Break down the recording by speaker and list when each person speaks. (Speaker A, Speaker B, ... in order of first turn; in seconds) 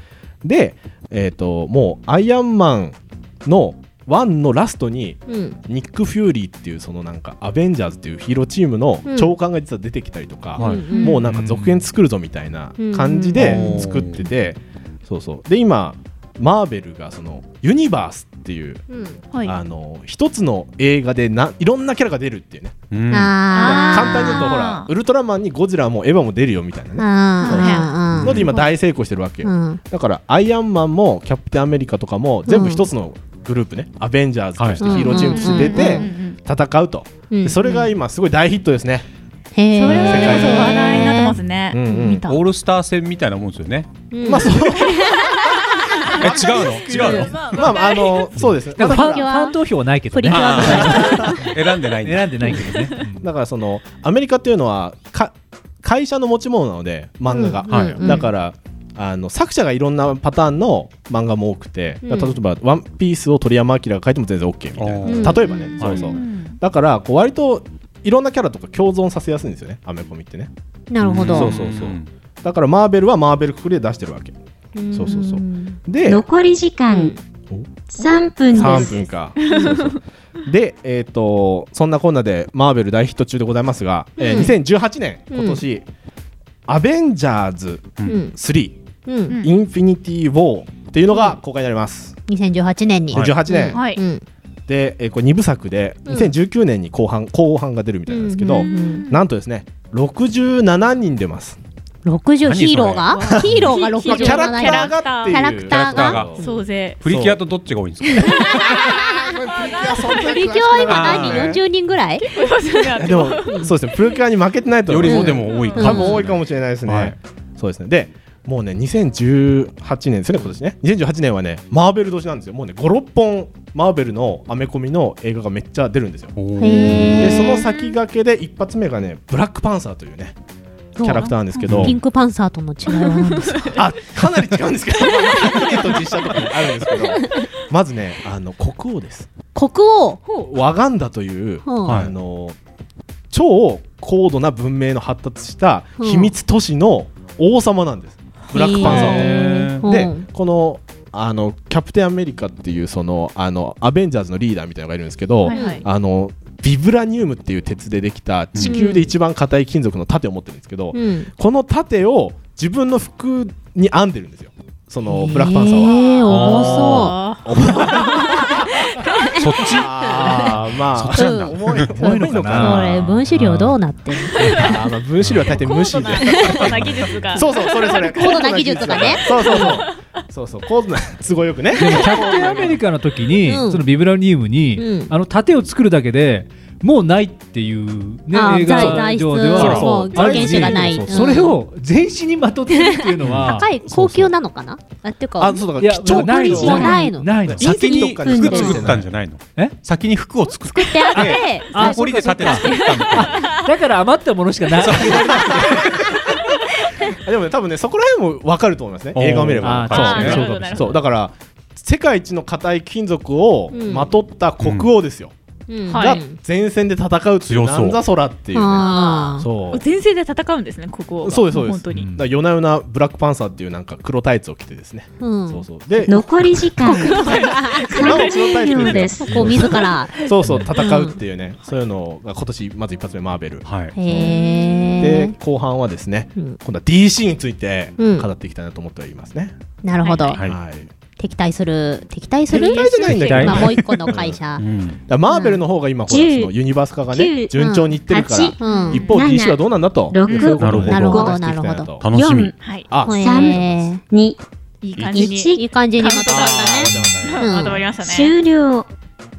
Speaker A: 0.4-18.9, 19.4-22.8, 23.5-39.1, 39.9-42.3, 44.2-45.5, 47.0-49.4, 53.2-70.5, 71.1-74.4, 74.9-76.2, 78.5-85.9, 86.7-88.8, 89.3-92.2, 93.1-93.9, 94.7-101.6, 103.3-106.5, 107.1-107.4, 108.8-111.6, 113.0-130.4, 131.0-132.0, 133.8-139.3, 140.4-142.6, 143.3-166.0, 167.4-168.7, 169.7-173.1, 174.5-182.8, 188.6-191.5, 193.8-194.3, 195.4-199.1, 205.0-206.1, 207.2-215.3, 215.9-219.8, 221.2-226.2, 228.0-234.4, 234.9-239.6, 240.4-240.9, 242.5-244.4, 245.1-252.1, 252.9-253.9, 256.3-257.4
Speaker B: 5.3-5.6, 9.1-9.4, 10.6-11.2, 12.8-14.3, 18.9-19.2, 23.1-24.6, 27.0-28.5, 29.4-29.8, 32.5-32.9, 34.8-36.1, 37.3-37.9, 39.5-42.1, 44.1-45.3, 46.9-47.4, 48.8-51.5, 57.3-58.3, 62.0-62.4, 65.0-66.0, 70.9-71.5, 74.8-75.8, 78.6-78.9, 84.2-84.6, 85.3-85.6, 88.0-88.4, 89.0-89.4, 91.1-91.4, 92.3-94.2, 96.1-96.3, 98.1-99.1, 102.0-106.3, 110.0-112.3, 113.4-113.7, 115.0-116.3, 126.6-127.7, 131.0-133.8, 139.5-140.2, 141.7-142.1, 146.0-146.3, 148.5-150.2, 155.5-155.8, 158.6-159.1, 160.9-161.3, 165.1-168.4, 169.0-170.5, 171.1-174.7, 178.0-179.8, 182.0-182.2, 183.4-183.8, 184.8-185.1, 188.3-191.6, 192.8-197.6, 198.2-198.8, 200.7-202.9, 213.7-214.1, 215.7-216.4, 218.5-219.5, 225.2-225.7, 227.2-228.2, 229.2-231.2, 233.9-235.4, 238.0-238.3, 239.8-240.5, 241.2-244.7, 245.3-245.6, 247.5-248.0, 248.6-249.1, 250.7-251.9, 253.0-254.0, 255.1-257.9
Speaker C: 10.6-10.9, 13.4-14.2, 22.9-23.4, 28.1-28.5, 34.6-35.0, 42.3-43.9, 46.2-47.6, 50.3-52.5, 57.7-58.1, 64.8-66.1, 71.0-72.1, 88.0-88.3, 93.1-93.5, 102.5-103.6, 105.6-106.3, 107.0-108.6, 110.9-111.6, 114.9-117.2, 126.4-127.3, 131.7-132.0, 141.8-142.1, 148.8-149.9, 158.6-158.8, 166.2-167.2, 169.3-169.9, 171.0-171.5, 175.2-175.5, 176.8-177.1, 189.5-190.1, 193.2-193.6, 197.5-203.4, 204.8-205.4, 209.2-210.6, 214.6-214.9, 217.5-218.0, 233.7-234.0, 240.3-240.6, 244.6-245.0, 250.6-251.1, 252.0-252.5
Speaker D: 10.8-11.2, 19.3-19.6, 23.5-24.9, 27.4-28.7, 35.0-36.4, 39.7-42.4, 45.8-48.4, 52.7-53.0, 65.8-66.6, 78.7-80.0, 89.3-89.5, 93.7-94.0, 98.5-99.2, 103.1-105.6, 106.3-107.2, 108.2-110.5, 112.2-114.2, 115.4-116.1, 126.7-128.0, 131.2-131.9, 132.9-133.8, 135.0-136.5, 137.1-137.4, 155.4-155.8, 165.8-169.3, 174.3-174.9, 175.5-180.0, 182.2-182.5, 200.8-203.7, 209.9-211.0, 215.9-216.3, 218.7-222.1, 226.9-229.9, 234.2-235.0, 240.0-240.5, 242.5-243.7, 248.6-249.2, 250.3-250.6, 252.6-252.9, 254.8-258.4
Speaker E: 11.3-11.7, 48.8-51.2, 52.0-53.2, 171.9-173.8, 181.8-193.8, 195.8-198.2, 201.2-202.6, 203.7-205.6, 209.6-210.7, 243.3-243.5
Speaker F: 76.1-77.2, 77.9-79.0, 226.1-227.3, 227.9-229.7, 246.1-246.5, 247.1-247.5, 248.1-251.4, 252.1-252.5, 253.1-254.4, 255.1-255.6, 258.0-258.9